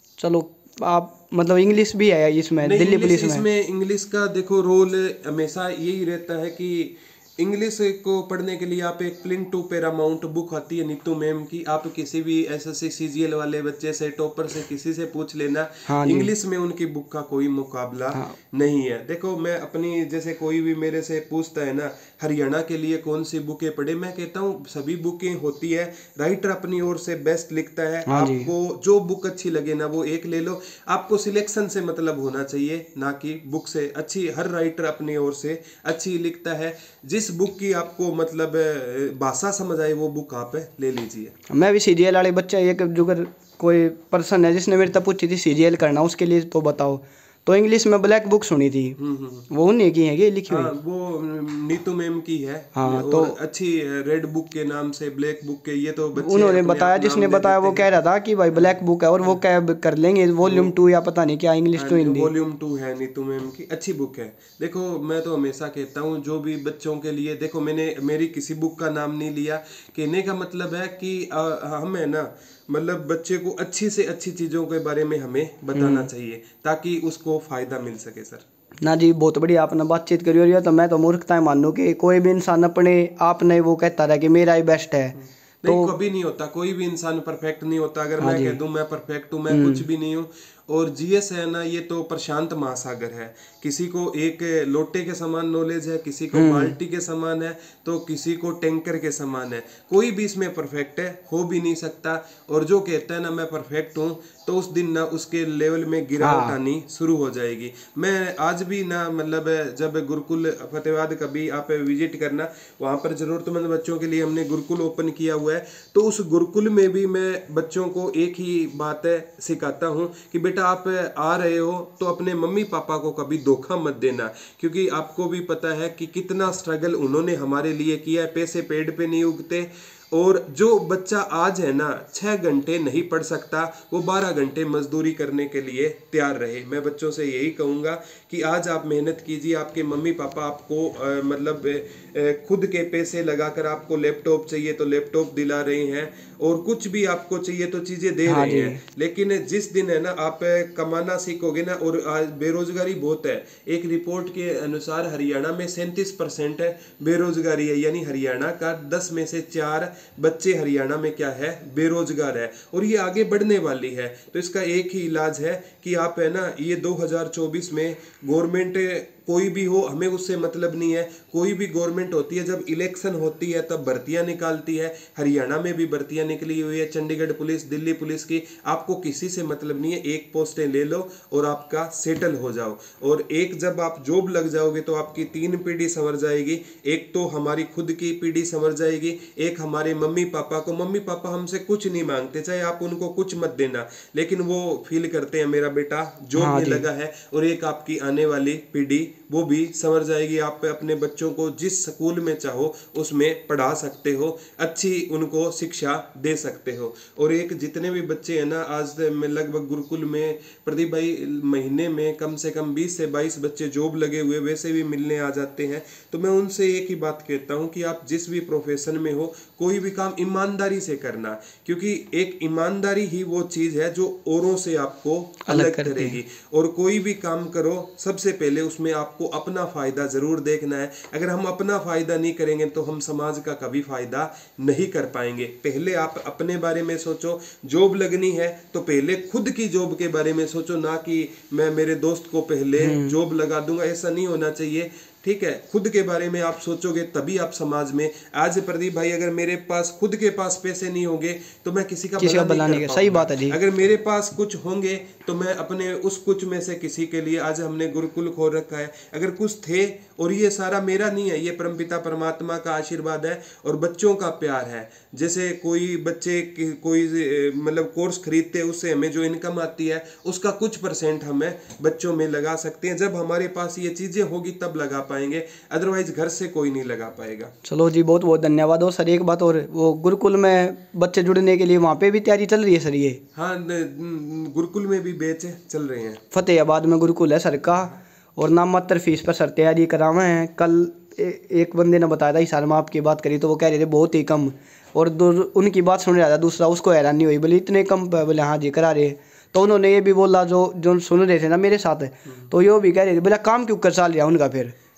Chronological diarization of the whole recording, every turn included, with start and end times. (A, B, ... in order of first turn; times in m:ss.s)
0:00.2-0:03.4 A
0:02.6-0:41.3 B
0:15.9-0:16.3 A
0:28.1-0:28.5 A
0:41.5-0:49.0 A
0:49.0-0:49.5 B
0:49.5-0:50.7 A
0:50.5-0:57.9 B
0:52.7-0:53.4 A
0:56.2-1:02.3 A
0:58.5-0:59.4 B
1:00.4-1:00.7 B
1:01.8-1:18.4 B
1:15.8-1:16.1 A
1:18.8-1:25.2 A
1:25.1-4:37.5 B
1:25.7-1:25.9 A
1:28.2-1:28.6 A
1:29.5-1:29.8 A
1:36.3-1:36.7 A
1:46.2-1:46.6 A
2:28.2-2:28.8 A
3:16.4-3:16.8 A
3:45.4-3:46.2 A
4:02.8-4:03.1 A
4:12.2-4:13.6 A
4:37.6-4:43.2 A
4:43.3-4:46.2 B
4:46.3-5:04.7 A